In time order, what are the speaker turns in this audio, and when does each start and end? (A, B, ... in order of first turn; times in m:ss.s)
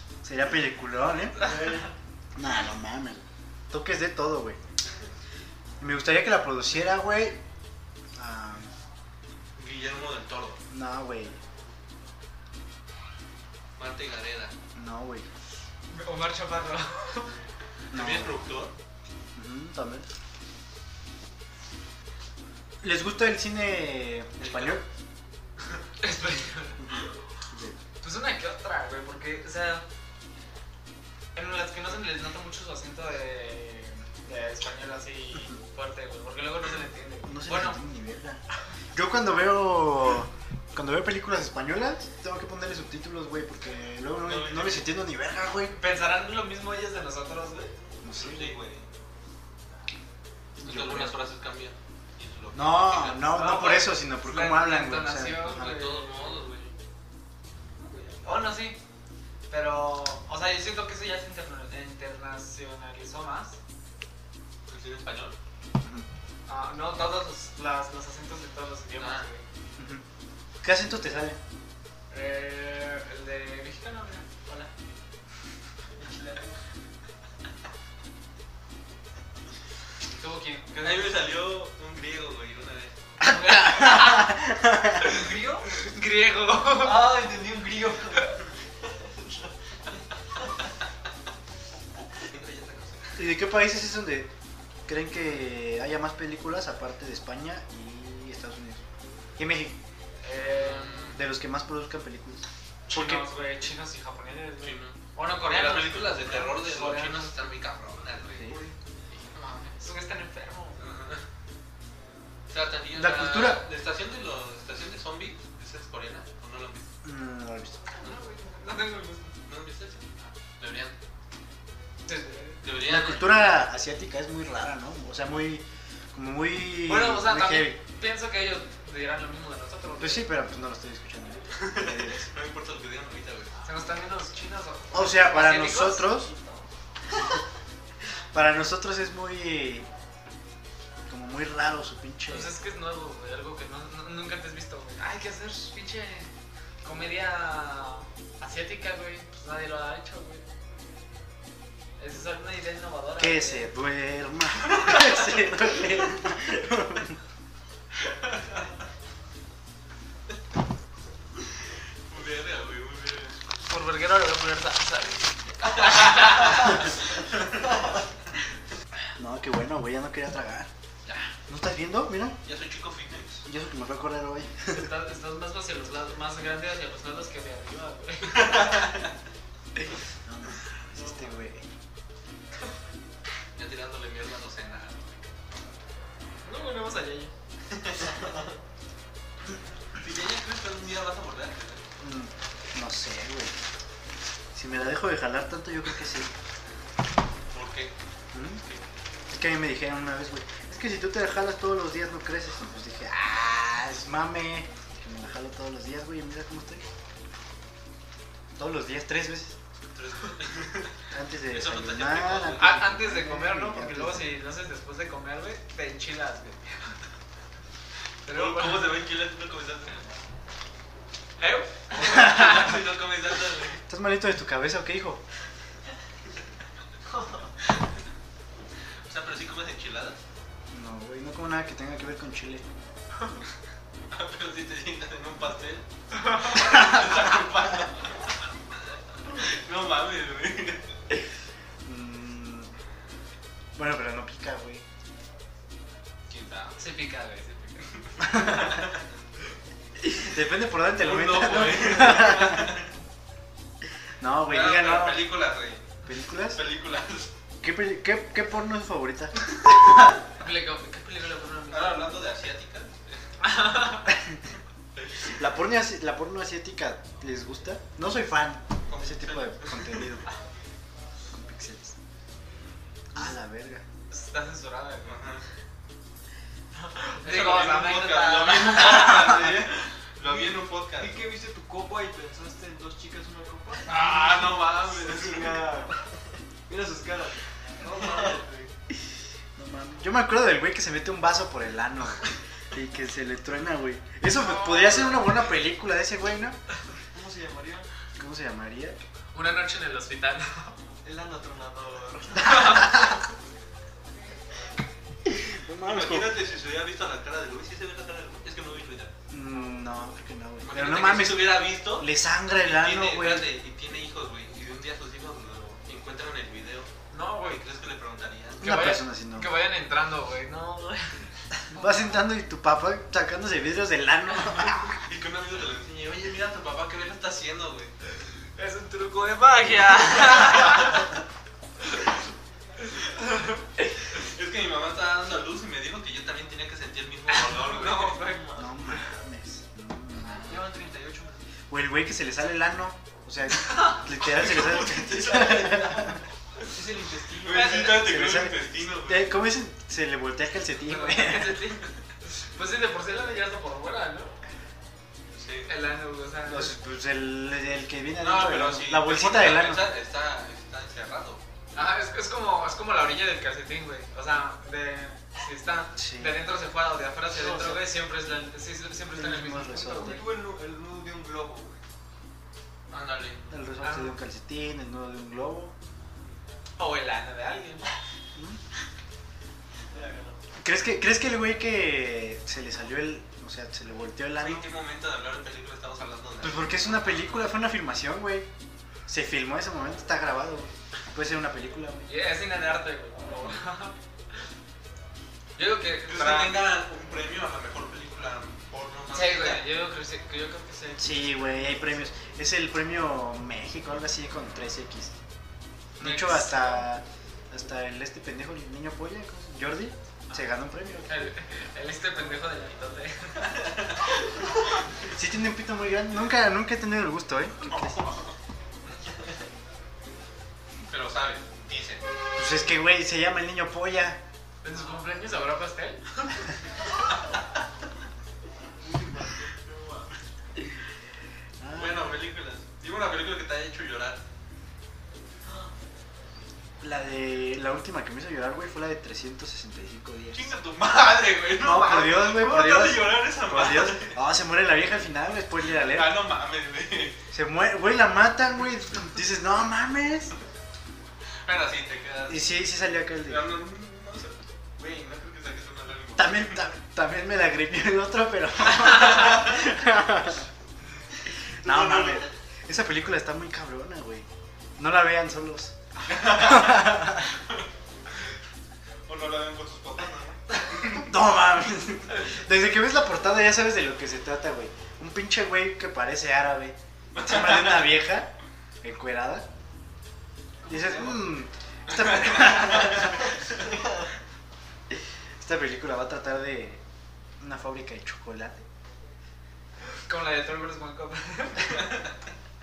0:00.2-0:01.7 A
0:02.4-0:04.6 A
0:05.8-0:07.4 A
0:08.2-0:08.7 A
0:09.6-0:10.6 B
0:10.7-0:11.4 A
0:13.8-0:14.5 B
0:14.8-0:15.3 A
0:15.9-0:17.3 C
0:17.9-0:18.4 A
0:17.9-0:18.7 B
0:19.4-0:20.0 A
0:22.8-0:24.9 A
0:24.4-0:24.8 B
0:26.0-0:27.0 C
0:26.8-0:27.8 A
0:28.0-0:29.8 C
0:31.4-0:37.8 C
0:37.3-0:38.4 A
0:38.9-0:45.8 A
0:44.2-0:44.9 B
0:45.7-0:47.7 C
0:48.0-0:48.6 A
0:48.1-0:48.9 B
0:50.6-0:51.2 A
0:50.6-0:53.3 B
0:52.5-0:55.8 A
0:53.3-0:56.5 C
0:55.5-0:56.7 B
0:57.8-0:58.2 D
0:58.2-0:58.8 C
0:59.5-1:03.6 C
1:04.7-1:05.4 B
1:05.8-1:06.1 A
1:06.5-1:09.4 C
1:09.0-1:09.3 B
1:09.8-1:10.0 A
1:10.6-1:11.4 A
1:12.1-1:14.7 C
1:16.0-1:16.5 D
1:20.2-1:21.0 C
1:20.8-1:23.0 B
1:23.2-1:24.4 C
1:23.2-1:25.1 A
1:25.0-1:27.2 C
1:25.0-1:25.7 D
1:26.8-1:29.5 D
1:32.3-1:33.3 B
1:33.2-1:34.3 A
1:34.9-1:38.8 A
1:39.4-1:39.8 A
1:40.2-1:41.2 C
1:40.5-1:41.2 B
1:41.1-1:43.3 A
1:42.9-1:47.4 C
1:44.6-1:48.5 B
1:48.5-1:48.8 D
1:49.1-1:49.7 B
1:49.7-1:50.8 C
1:50.8-1:51.2 B
1:52.5-1:56.9 B
1:52.9-1:53.6 A
1:57.0-1:57.8 A
1:58.0-1:59.3 C
1:59.5-2:01.0 B
2:02.1-2:02.6 C
2:02.6-2:03.4 B
2:02.8-2:07.8 A
2:06.8-2:10.3 C
2:10.0-2:12.3 A
2:11.5-2:13.5 B
2:13.6-2:16.6 C
2:14.9-2:16.3 A
2:18.3-2:19.9 A
2:21.1-2:22.5 A
2:22.3-2:26.3 C
2:26.8-2:30.4 C
2:32.0-2:33.7 C
2:33.2-2:37.2 A
2:38.2-2:38.6 B
2:42.1-2:43.4 B
2:43.6-2:46.6 C
2:45.6-2:46.8 B
2:49.2-2:50.7 A
2:51.1-2:51.3 B
2:51.5-2:52.4 A
2:52.4-2:53.4 B
2:53.5-2:54.9 A
2:54.7-2:58.7 C
2:58.3-2:59.1 B
3:00.2-3:01.7 A
3:03.6-3:05.6 B
3:06.4-3:07.3 C
3:07.7-3:08.0 B
3:10.0-3:11.9 B
3:12.0-3:13.5 A
3:14.5-3:16.3 A
3:17.5-3:17.9 B
3:18.3-3:18.6 A
3:19.3-3:26.8 A
3:28.6-3:29.6 A
3:29.9-3:32.8 B
3:31.1-3:34.3 A
3:32.6-3:36.9 C
3:38.3-3:39.0 C
3:38.3-3:40.0 B
3:41.4-3:42.8 C
3:41.9-3:43.8 B
3:43.9-3:45.2 A
3:49.0-3:50.2 B
3:50.7-3:52.6 A
3:54.1-3:58.3 B
3:59.2-4:00.8 B
4:01.8-4:02.7 A
4:03.8-4:04.8 A
4:06.3-4:06.8 B
4:06.8-4:07.9 C
4:08.2-4:08.9 B
4:08.3-4:08.6 A
4:10.2-4:12.8 A
4:11.0-4:12.9 B
4:14.2-4:15.3 A
4:14.5-4:17.3 B
4:16.0-4:16.6 A
4:17.6-4:20.2 A
4:20.4-4:22.1 C
4:21.7-4:23.4 B
4:23.4-4:24.1 C
4:24.1-4:24.4 A
4:25.3-4:30.3 A
4:28.9-4:30.1 B
4:31.3-4:31.9 A
4:33.1-4:33.8 A
4:34.1-4:35.3 C
4:35.0-4:35.4 B
4:36.7-4:39.6 C
4:37.2-4:41.2 B
4:40.2-4:46.1 D
4:43.9-4:45.7 B
4:46.7-4:48.7 D
4:48.1-4:48.4 B
4:49.6-4:56.6 A
4:54.9-4:55.2 C
4:57.1-4:57.9 D
4:58.2-4:59.0 A
4:59.3-5:00.8 C
5:01.0-5:02.9 D
5:02.5-5:02.9 C
5:05.3-5:06.3 A
5:05.8-5:09.1 B
5:09.3-5:13.5 A
5:10.6-5:16.9 B
5:17.1-5:17.6 C
5:17.5-5:18.8 B
5:18.6-5:19.5 A
5:18.6-5:21.3 C
5:21.7-5:25.0 A
5:25.0-5:27.9 B
5:28.6-5:31.1 C
5:33.1-5:33.6 C
5:34.1-5:38.2 B
5:37.3-5:38.5 C
5:37.9-5:38.7 D
5:38.6-5:40.5 A
5:40.2-5:40.5 B
5:40.3-5:41.4 D
5:41.7-5:46.2 A
5:44.8-5:48.1 D
5:47.4-5:49.3 B
5:47.8-5:51.7 A
5:50.8-5:54.4 C
5:55.4-5:55.7 B
5:55.7-5:56.7 C
5:56.5-5:59.9 A
5:58.2-6:01.4 B
6:01.8-6:10.2 C
6:06.0-6:06.4 A
6:07.4-6:07.8 A
6:09.1-6:10.2 A
6:09.9-6:11.8 D
6:12.9-6:13.4 B
6:13.5-6:15.8 A
6:13.8-6:14.2 C
6:16.8-6:17.9 C
6:18.4-6:18.6 A
6:19.9-6:20.4 D
6:20.6-6:24.7 A
6:24.4-6:27.2 B
6:26.4-6:28.5 A
6:29.1-6:32.1 A
6:32.1-6:34.0 C
6:35.6-6:36.6 C
6:36.1-6:39.6 B
6:39.1-6:41.9 C
6:41.0-6:45.1 A
6:46.0-6:46.9 C
6:46.0-6:51.1 A
6:51.1-6:53.8 C
6:55.1-6:58.1 A
6:57.7-6:58.2 B
7:00.9-7:02.0 B
7:02.4-7:04.2 A
7:04.6-7:06.5 C
7:08.8-7:10.0 D
7:11.6-7:12.2 A
7:11.8-7:14.2 B
7:16.8-7:20.6 A
7:20.3-7:24.2 B
7:21.6-7:26.2 A
7:25.8-7:27.2 B
7:27.3-7:30.3 A
7:31.4-7:32.5 B
7:32.3-7:33.6 A
7:33.2-7:36.7 B
7:36.2-7:40.5 A
7:41.6-7:44.3 A
7:41.6-7:42.3 B
7:44.8-7:47.3 A
7:46.0-7:47.6 B
7:49.1-7:51.1 B
7:50.9-7:58.3 A
7:57.1-7:57.9 B
7:58.8-7:59.5 A
8:00.6-8:01.3 D
8:00.7-8:03.3 A
8:01.9-8:03.2 B
8:04.9-8:06.8 A
8:07.4-8:08.6 A
8:10.1-8:12.0 C